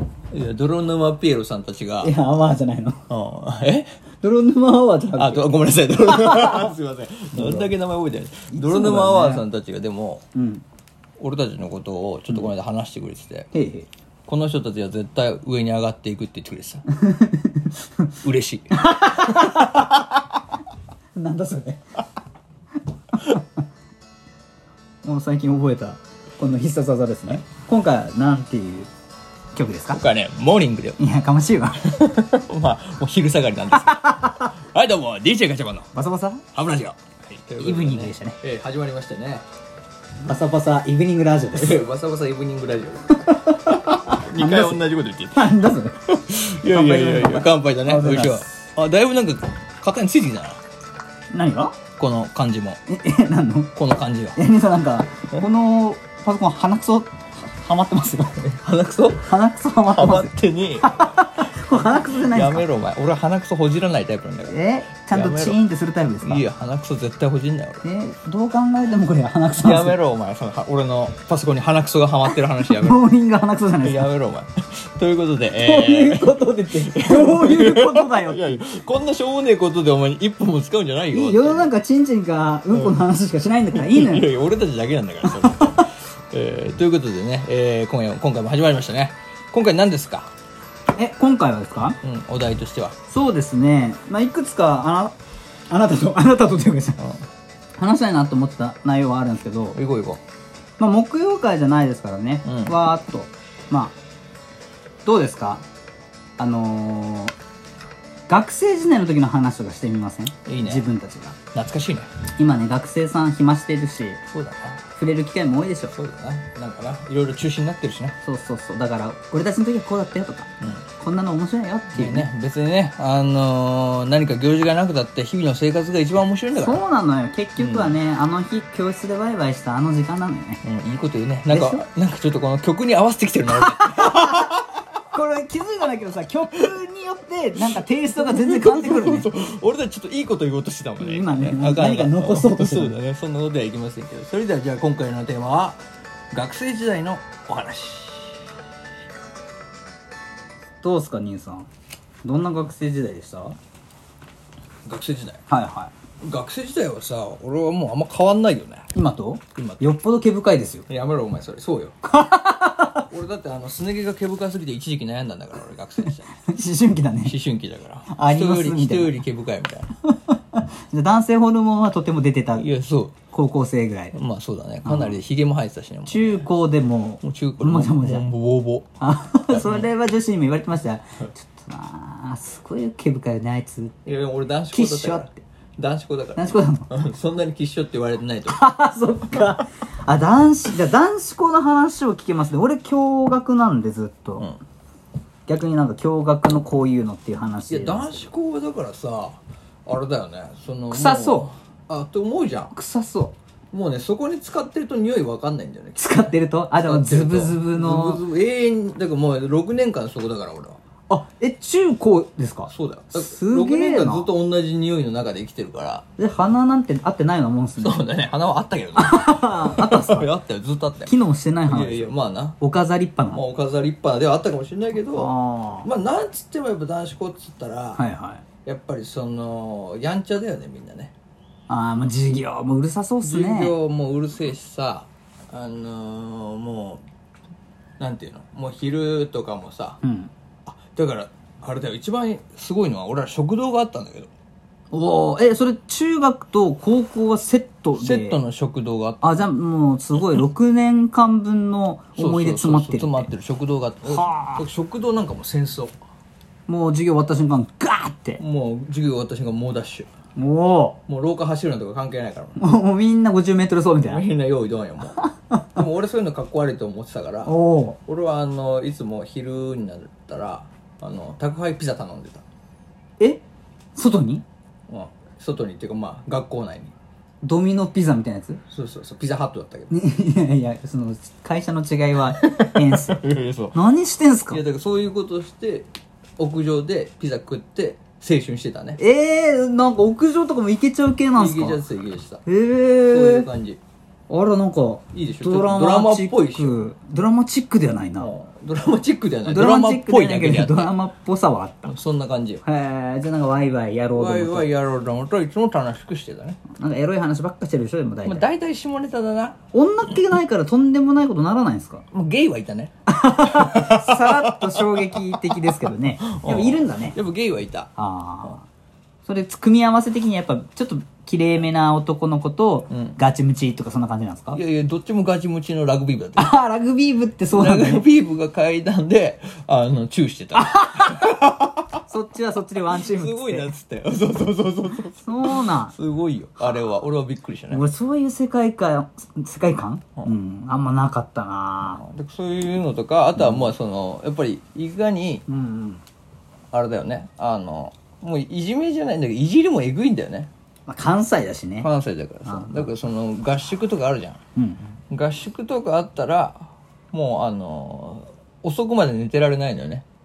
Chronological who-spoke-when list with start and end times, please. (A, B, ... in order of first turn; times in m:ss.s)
0:00.3-0:02.1 A
0:02.0-0:03.0 B
0:03.1-0:04.0 A
0:04.2-0:05.5 B
0:05.2-0:10.2 A
0:06.0-0:06.7 B
0:07.3-0:07.7 B
0:08.5-0:09.4 B
0:10.3-0:10.6 B
0:11.2-0:13.5 A
0:13.5-0:13.9 B
0:14.3-0:16.8 A
0:16.9-0:18.1 B
0:18.2-0:19.8 A
0:18.8-0:20.0 B
0:21.2-0:21.8 B
0:23.1-0:23.5 B
0:25.0-0:28.9 B
0:29.6-0:30.0 B
0:29.9-0:31.0 A
0:31.0-0:31.9 B
0:31.8-0:35.9 A
0:33.8-0:34.5 B
0:35.9-0:36.4 B
0:36.5-0:39.4 A
0:37.6-0:38.4 B
0:40.2-0:41.8 B
0:41.5-0:45.6 A
0:43.1-0:46.1 B
0:46.1-0:50.6 A
0:46.6-0:48.5 B
0:51.3-0:51.8 B
0:52.0-0:52.8 A
0:52.9-0:53.7 B
0:53.7-0:54.4 A
0:54.4-0:58.5 B
0:58.4-0:59.4 A
0:59.2-1:02.6 B
0:59.9-1:05.6 A
1:04.5-1:06.4 B
1:06.2-1:07.8 A
1:07.8-1:10.0 B
1:09.6-1:13.0 A
1:12.7-1:14.1 B
1:13.8-1:21.7 A
1:15.6-1:18.7 B
1:21.1-1:24.3 B
1:22.7-1:23.0 A
1:23.7-1:30.3 A
1:25.3-1:25.9 B
1:31.0-1:32.0 B
1:32.0-1:33.0 A
1:33.1-1:35.2 B
1:35.7-1:37.0 B
1:37.8-1:39.8 B
1:39.7-1:40.2 A
1:40.8-1:44.0 B
1:42.4-1:42.7 A
1:45.0-1:45.6 B
1:46.4-1:47.3 B
1:48.3-1:51.4 B
1:50.4-1:50.8 A
1:51.6-1:52.1 A
1:52.4-1:54.2 B
1:54.3-1:54.8 A
1:55.0-1:55.9 B
1:55.9-1:58.1 A
1:58.2-2:02.3 B
2:01.9-2:06.8 A
2:06.6-2:10.6 B
2:07.6-2:08.0 A
2:10.6-2:14.6 A
2:11.5-2:11.8 B
2:13.6-2:19.3 B
2:18.1-2:28.5 A
2:21.0-2:23.0 B
2:30.8-2:31.7 B
2:32.2-2:33.6 B
2:34.8-2:35.4 A
2:35.5-2:35.9 B
2:36.2-2:38.9 A
2:38.9-2:40.9 B
2:39.6-2:39.8 A
2:40.9-2:42.0 A
2:42.0-2:43.1 B
2:43.1-2:46.3 A
2:46.4-2:47.4 B
2:47.2-2:49.9 A
2:48.1-2:49.2 B
2:50.1-2:52.7 B
2:52.6-2:53.1 A
2:53.3-2:54.2 B
2:54.1-2:56.5 A
2:54.9-2:55.2 B
2:56.1-2:58.3 B
2:57.2-2:58.9 A
2:59.0-3:04.0 B
2:59.5-2:59.9 A
3:04.0-3:08.6 A
3:04.7-3:05.4 B
3:06.4-3:06.9 B
3:08.5-3:14.5 B
3:15.5-3:18.3 B
3:17.7-3:22.7 A
3:20.9-3:21.5 B
3:22.7-3:23.3 B
3:23.7-3:30.8 A
3:26.0-3:28.2 B
3:31.1-3:34.3 B
3:32.7-3:36.0 A
3:36.2-3:38.0 B
3:37.8-3:41.1 A
3:39.0-3:40.3 B
3:41.1-3:43.4 B
3:41.7-3:42.6 A
3:43.3-3:45.3 A
3:45.1-3:45.9 B
3:45.8-3:48.0 A
3:48.0-3:48.4 B
3:48.6-3:51.1 A
3:51.7-3:53.8 B
3:53.2-3:57.0 A
3:58.0-4:00.0 A
4:00.0-4:00.3 B
4:00.7-4:04.3 A
4:04.9-4:08.4 B
4:08.0-4:09.5 A
4:09.2-4:13.3 B
4:12.2-4:15.9 A
4:14.1-4:14.6 B
4:16.7-4:18.4 B
4:18.4-4:20.1 A
4:20.4-4:21.0 B
4:21.1-4:22.6 A
4:22.6-4:24.2 B
4:24.0-4:25.2 A
4:25.2-4:25.8 B
4:25.8-4:27.5 A
4:27.4-4:28.0 B
4:28.1-4:32.4 A
4:33.9-4:34.4 B
4:34.9-4:36.9 A
4:37.4-4:38.6 B
4:38.7-4:39.9 A
4:39.9-4:43.2 B
4:42.4-4:43.8 A
4:43.7-4:44.6 B
4:44.5-4:49.0 A
4:49.0-4:51.8 B
4:51.4-4:52.4 A
4:52.4-4:53.5 B
4:53.1-4:53.8 A
4:54.3-4:58.3 B
4:55.1-4:56.8 A
4:58.2-5:00.9 A
4:59.4-5:01.9 B
5:01.8-5:02.6 A
5:02.6-5:04.7 B
5:04.1-5:06.6 A
5:06.8-5:08.4 B
5:08.2-5:09.6 A
5:09.7-5:12.0 B
5:12.1-5:15.6 A
5:13.1-5:17.2 B
5:16.2-5:17.9 A
5:18.0-5:18.7 B
5:19.2-5:24.6 B
5:22.9-5:23.2 A
5:24.5-5:26.5 A
5:26.4-5:28.0 B
5:27.5-5:31.9 A
5:30.6-5:31.4 B
5:32.1-5:33.7 B
5:32.9-5:37.8 A
5:35.2-5:35.9 B
5:37.7-5:42.0 B
5:41.9-5:45.4 A
5:45.5-5:46.0 B
5:46.7-5:50.5 A
5:50.9-5:51.9 B
5:51.8-5:54.4 A
5:52.4-5:52.9 B
5:54.6-5:54.9 B
5:55.1-6:00.0 A